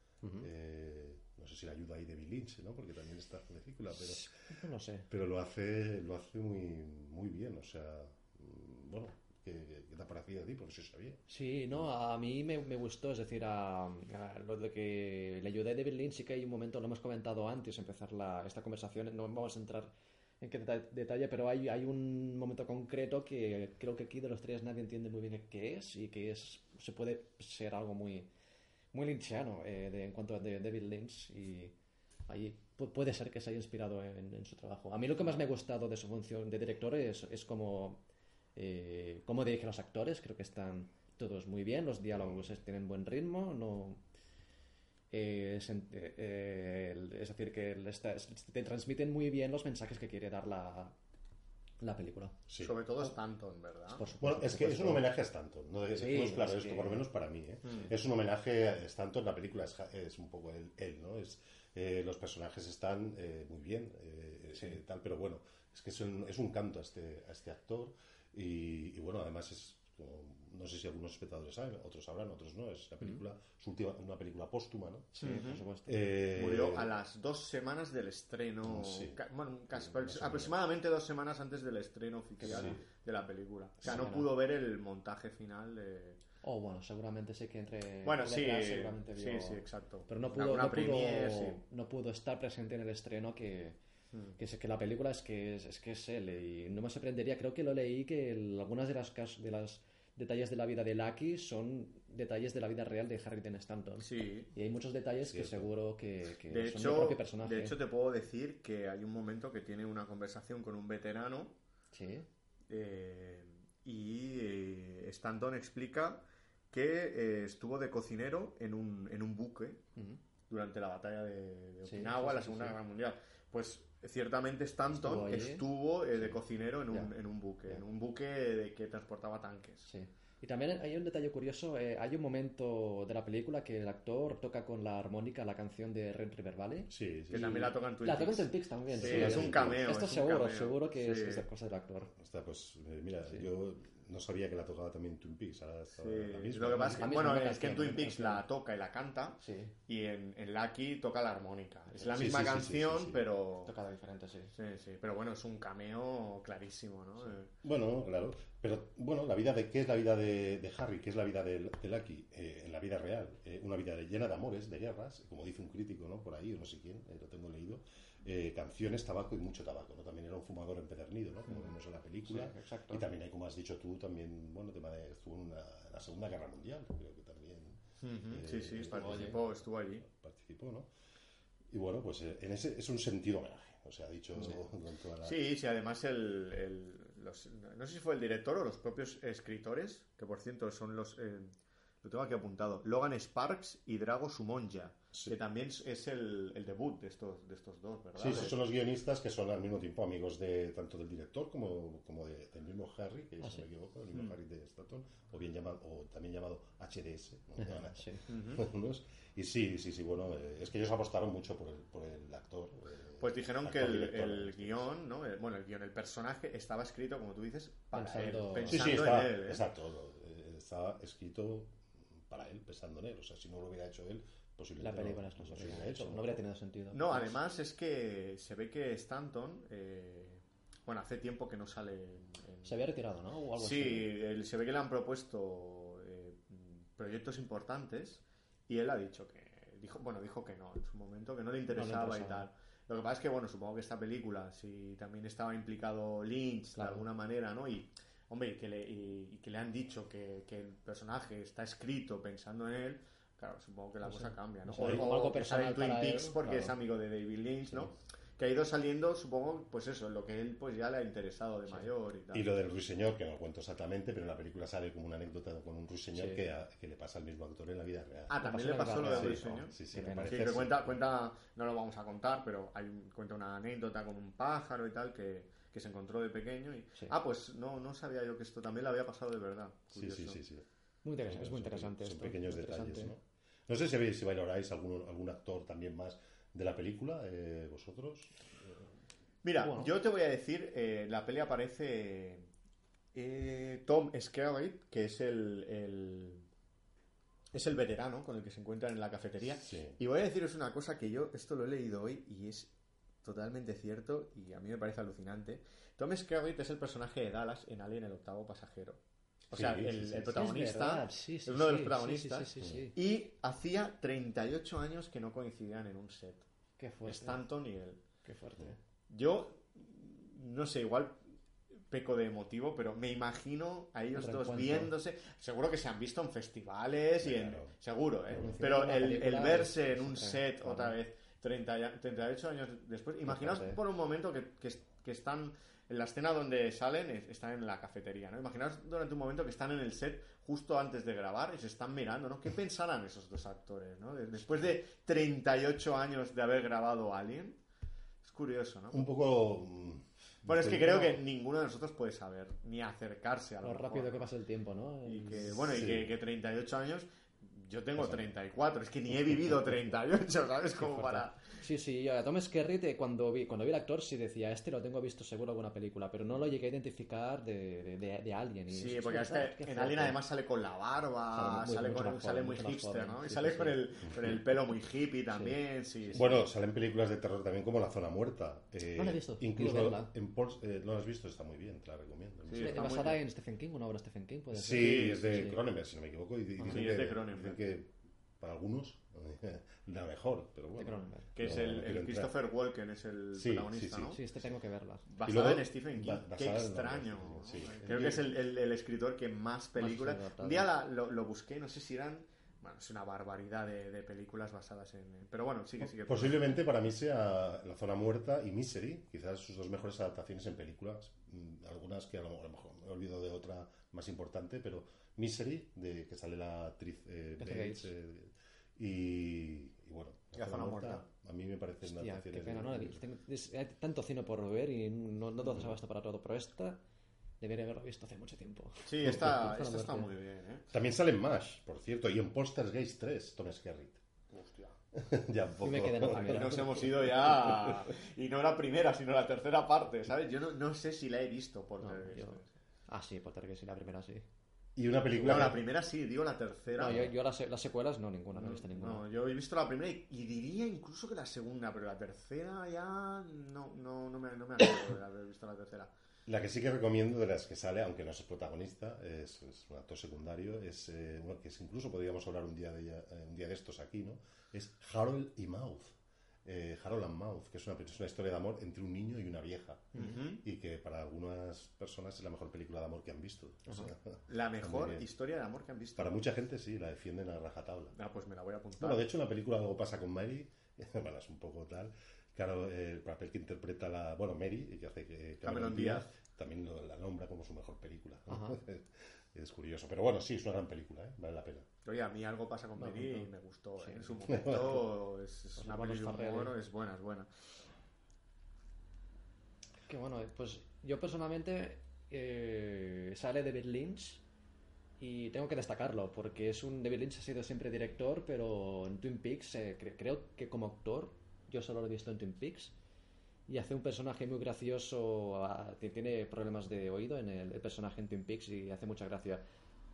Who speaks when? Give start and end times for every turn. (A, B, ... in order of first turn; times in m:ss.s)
0:00.2-0:00.5 A
0:00.4-0:04.3 B
0:03.9-0:05.1 A
0:05.1-0:11.2 B
0:11.3-0:28.3 A
0:28.9-0:31.7 A
0:32.3-0:38.0 A
0:38.6-0:44.0 A
0:42.1-0:42.5 B
0:45.1-0:50.9 A
0:51.8-0:52.4 A
0:52.5-0:52.7 B
0:52.6-0:54.0 C
0:53.9-0:55.1 A
0:54.2-1:16.9 B
0:55.9-0:57.0 A
1:15.1-1:16.1 A
1:15.2-1:15.6 C
1:16.3-1:26.2 C
1:18.6-1:19.2 B
1:19.7-1:20.5 B
1:22.4-1:22.7 A
1:22.4-1:22.8 B
1:23.8-1:24.1 B
1:23.8-1:24.3 A
1:26.4-1:33.8 A
1:28.0-1:31.6 C
1:34.4-1:47.7 A
1:44.0-1:44.5 C
1:45.2-1:45.7 B
1:46.5-1:51.5 C
1:51.9-1:52.3 A
1:52.7-1:59.8 C
2:00.5-2:09.9 C
2:01.8-2:02.8 A
2:04.9-2:06.4 A
2:09.9-2:22.1 A
2:16.9-2:17.7 B
2:17.3-2:21.5 C
2:18.9-2:19.9 B
2:22.1-2:27.2 B
2:26.0-2:33.7 C
2:26.9-2:28.4 A
2:29.4-2:29.7 A
2:32.0-2:33.2 B
2:33.6-2:34.5 A
2:34.5-2:37.5 C
2:37.6-3:00.9 B
2:52.2-2:53.0 A
2:58.0-3:00.0 C
2:58.9-2:59.4 A
3:01.7-3:05.4 B
3:05.2-3:18.6 C
3:18.2-3:34.9 B
3:27.6-3:28.2 A
3:28.3-3:28.7 C
3:33.2-3:39.6 C
3:37.9-3:39.0 A
3:38.7-3:46.4 B
3:44.8-3:47.4 A
3:46.9-3:52.8 C
3:52.6-3:54.1 A
3:53.6-4:22.5 C
4:01.7-4:02.5 A
4:06.7-4:07.0 A
4:14.0-4:16.7 A
4:14.8-4:15.1 B
4:22.3-4:28.4 B
4:26.1-4:26.4 A
4:28.3-4:40.4 C
4:28.4-4:30.5 A
4:28.9-4:31.0 B
4:39.9-4:40.6 B
4:41.0-4:43.1 A
4:41.2-4:48.8 B
4:49.4-4:52.5 C
4:49.6-4:49.9 A
4:53.1-4:56.5 C
4:57.5-5:02.7 C
4:59.6-5:00.0 B
5:03.2-5:09.0 C
5:09.5-5:16.4 C
5:09.5-5:10.4 B
5:10.3-5:13.0 A
5:12.6-5:12.8 B
5:16.8-5:17.4 A
5:17.0-5:18.0 C
5:18.2-5:18.8 A
5:19.1-5:21.2 C
5:21.9-5:47.6 C
5:24.2-5:24.9 A
5:27.2-5:27.7 B
5:28.3-5:28.6 B
5:28.3-5:30.9 A
5:33.3-5:33.8 A
5:48.2-5:49.1 C
5:48.9-5:51.1 B
5:50.4-5:54.3 C
5:53.6-5:55.5 A
5:55.0-6:01.4 C
5:55.7-5:56.1 B
5:58.0-5:58.3 B
6:00.8-6:10.2 A
6:08.7-6:16.4 C
6:11.3-6:13.9 A
6:16.1-6:22.8 B
6:18.9-6:20.1 A
6:22.5-6:23.2 C
6:22.5-6:25.6 A
6:24.5-6:32.3 B
6:24.7-6:25.4 C
6:26.6-6:26.8 A
6:26.7-6:27.6 C
6:30.8-6:31.3 A
6:31.3-6:34.2 C
6:33.3-6:34.2 B
6:34.1-6:35.1 A
6:35.1-6:46.4 C
6:35.2-6:38.2 B
6:39.8-6:40.7 A
6:45.8-7:03.0 B
6:57.4-6:57.9 A
7:00.3-7:01.0 C
7:01.8-7:06.8 A
7:07.4-7:10.1 A
7:08.8-7:10.7 C
7:10.7-7:14.0 B
7:14.3-7:14.7 C
7:14.9-7:17.8 B
7:15.6-7:17.1 A
7:16.0-7:22.5 C
7:21.8-7:24.2 A
7:24.8-7:25.6 B
7:25.2-7:27.1 C
7:26.8-7:29.0 A
7:28.3-7:35.9 C
7:36.3-7:45.9 B
7:46.4-7:55.1 B
7:49.9-7:50.4 C
7:54.3-7:56.2 C
7:56.0-7:57.9 B
7:57.9-7:59.0 C
7:58.8-8:11.7 B
8:05.4-8:06.1 C
8:08.3-8:08.6 A
8:11.8-8:17.3 C
8:12.8-8:14.2 A
8:14.3-8:14.8 B
8:15.6-8:16.5 A
8:19.9-8:24.2 A
8:25.0-8:32.7 A
8:33.5-8:39.4 A